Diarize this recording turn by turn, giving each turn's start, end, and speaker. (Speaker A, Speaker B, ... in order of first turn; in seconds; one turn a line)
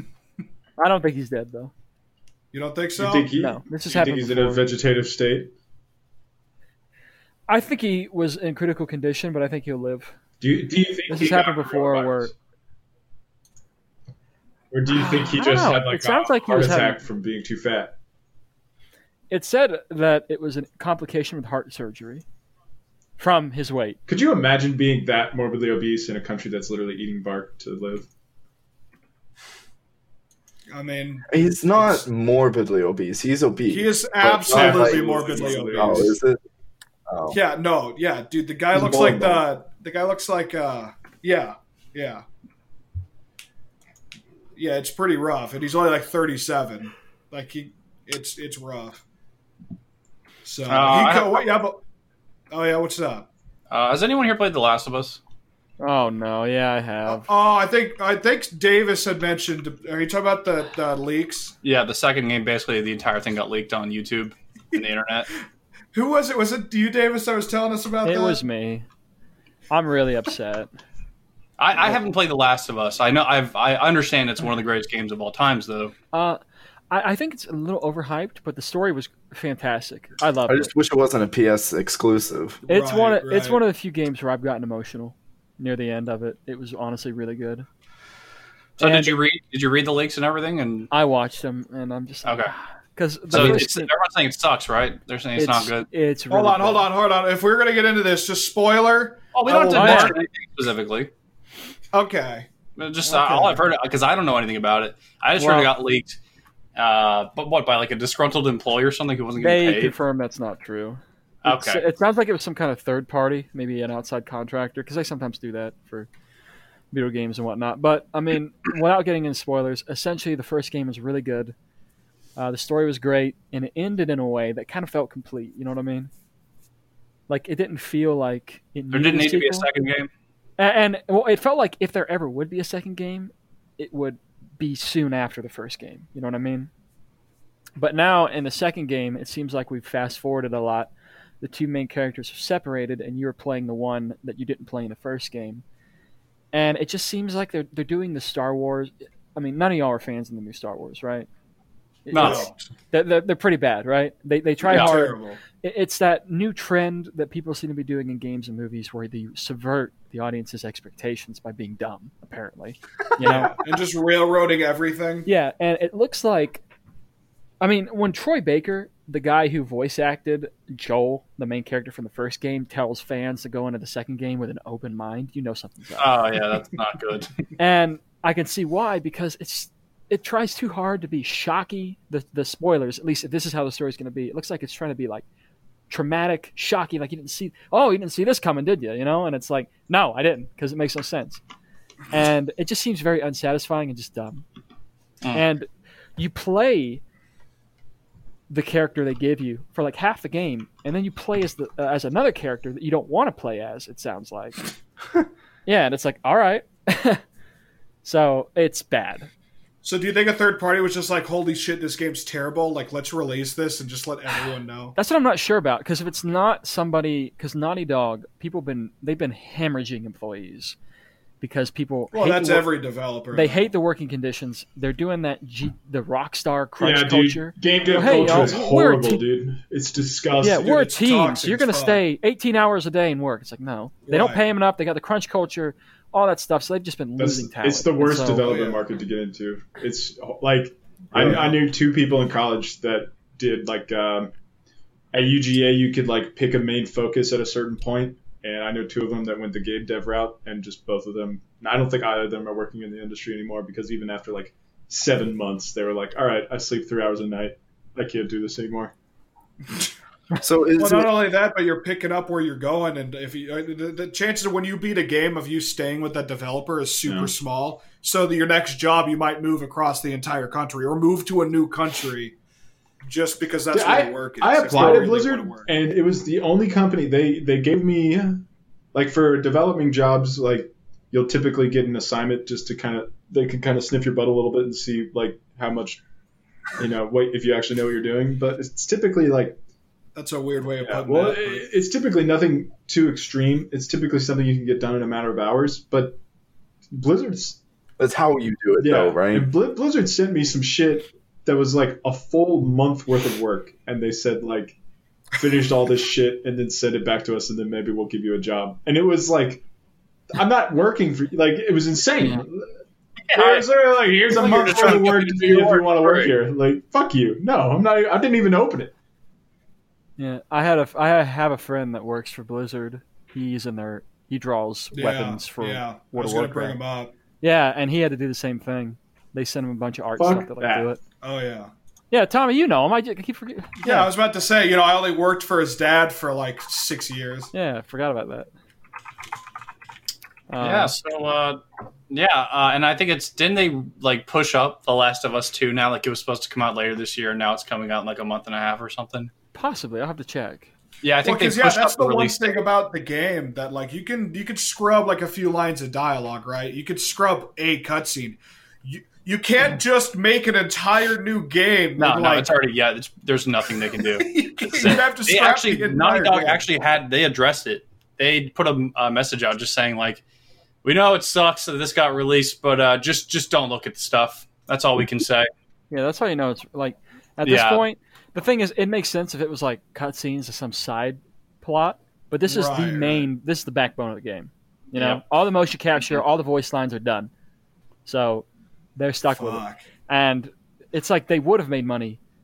Speaker A: 0.8-1.7
Speaker B: 2.5-3.3
Speaker C: 3.0-5.5
Speaker A: 3.3-4.6
Speaker A: 7.5-10.1
Speaker C: 10.4-12.3
Speaker A: 11.1-12.3
Speaker D: 11.3-11.8
Speaker C: 14.7-17.9
Speaker A: 14.9-17.0
Speaker A: 19.3-22.2
Speaker A: 23.2-24.0
Speaker C: 24.1-28.1
Speaker B: 30.7-32.0
Speaker E: 31.3-36.4
Speaker B: 33.7-36.1
Speaker C: 34.5-36.1
Speaker E: 37.1-37.4
Speaker B: 37.3-42.2
Speaker C: 38.7-39.4
Speaker B: 44.5-49.0
Speaker B: 50.4-51.8
Speaker D: 50.7-51.5
Speaker B: 52.5-53.3
Speaker D: 53.7-55.2
Speaker A: 55.8-57.3
Speaker B: 57.1-61.5
Speaker D: 61.6-65.3
Speaker B: 65.9-68.4
Speaker A: 68.0-68.8
Speaker A: 69.7-70.7
Speaker D: 71.6-75.9
Speaker A: 76.1-76.4
Speaker A: 76.9-80.7
Speaker E: 80.5-82.6
Speaker B: 82.6-83.6
Speaker A: 82.7-87.7
Speaker D: 88.8-90.9
Speaker A: 88.8-89.2
Speaker A: 90.9-93.9
Speaker D: 92.2-92.5
Speaker D: 93.3-95.9
Speaker A: 95.3-96.9
Speaker B: 96.3-100.2
Speaker D: 99.3-101.1
Speaker A: 99.7-100.2
Speaker B: 101.9-102.5
Speaker D: 102.8-106.2
Speaker B: 103.0-103.6
Speaker A: 105.4-105.7
Speaker D: 106.8-109.9
Speaker A: 109.4-116.1
Speaker D: 111.4-111.8
Speaker A: 116.9-121.5
Speaker A: 122.4-126.1
Speaker A: 127.3-129.7
Speaker D: 128.9-130.1
Speaker A: 130.6-136.7
Speaker A: 137.8-145.6
Speaker A: 146.5-151.3
Speaker A: 152.0-163.6
Speaker D: 152.1-152.5
Speaker B: 152.2-152.5
Speaker B: 154.6-155.4
Speaker D: 154.7-155.0
Speaker B: 163.2-165.3
Speaker A: 165.2-166.6
Speaker A: 167.6-176.2
Speaker D: 176.0-177.3
Speaker A: 177.6-185.2
Speaker A: 185.9-191.4
Speaker A: 192.1-194.4
Speaker A: 195.3-197.0
Speaker A: 198.5-204.6
Speaker A: 205.7-207.2
Speaker A: 208.0-209.3
Speaker B: 209.8-214.9
Speaker A: 215.0-220.8
Speaker A: 221.4-222.7
Speaker B: 222.1-223.7
Speaker A: 223.3-229.2
Speaker C: 226.8-230.8
Speaker B: 227.9-228.6
Speaker A: 230.4-238.5
Speaker B: 230.5-232.0
Speaker B: 234.1-234.4
Speaker C: 237.2-244.3
Speaker B: 238.4-238.8
Speaker B: 241.1-241.5
Speaker C: 245.1-258.9
Speaker E: 260.4-261.2
Speaker B: 260.8-272.3
Speaker C: 267.0-267.3
Speaker B: 273.0-275.7
Speaker C: 273.7-278.4
Speaker C: 278.9-286.0
Speaker C: 286.8-289.6
Speaker B: 290.1-291.6
Speaker C: 290.8-296.2
Speaker C: 296.9-297.6
Speaker E: 298.0-299.5
Speaker C: 298.8-304.8
Speaker C: 305.4-309.6
Speaker C: 310.3-312.7
Speaker A: 312.2-312.4
Speaker D: 313.3-313.7
Speaker C: 313.3-318.9
Speaker D: 314.3-316.3
Speaker B: 314.4-315.2
Speaker A: 320.2-326.8
Speaker B: 324.9-327.1
Speaker A: 327.4-331.0
Speaker C: 330.2-330.9
Speaker B: 331.2-331.7
Speaker A: 332.1-334.1
Speaker B: 333.8-337.5
Speaker A: 337.5-338.5
Speaker A: 340.5-340.9
Speaker D: 340.6-349.3
Speaker A: 349.5-350.7
Speaker D: 351.0-352.6
Speaker B: 351.2-362.5
Speaker D: 362.0-370.2
Speaker B: 364.2-366.6
Speaker D: 370.8-375.5
Speaker A: 375.9-387.3
Speaker D: 377.4-377.8
Speaker B: 382.4-383.3
Speaker D: 384.9-385.2
Speaker A: 388.1-392.2
Speaker B: 389.4-389.8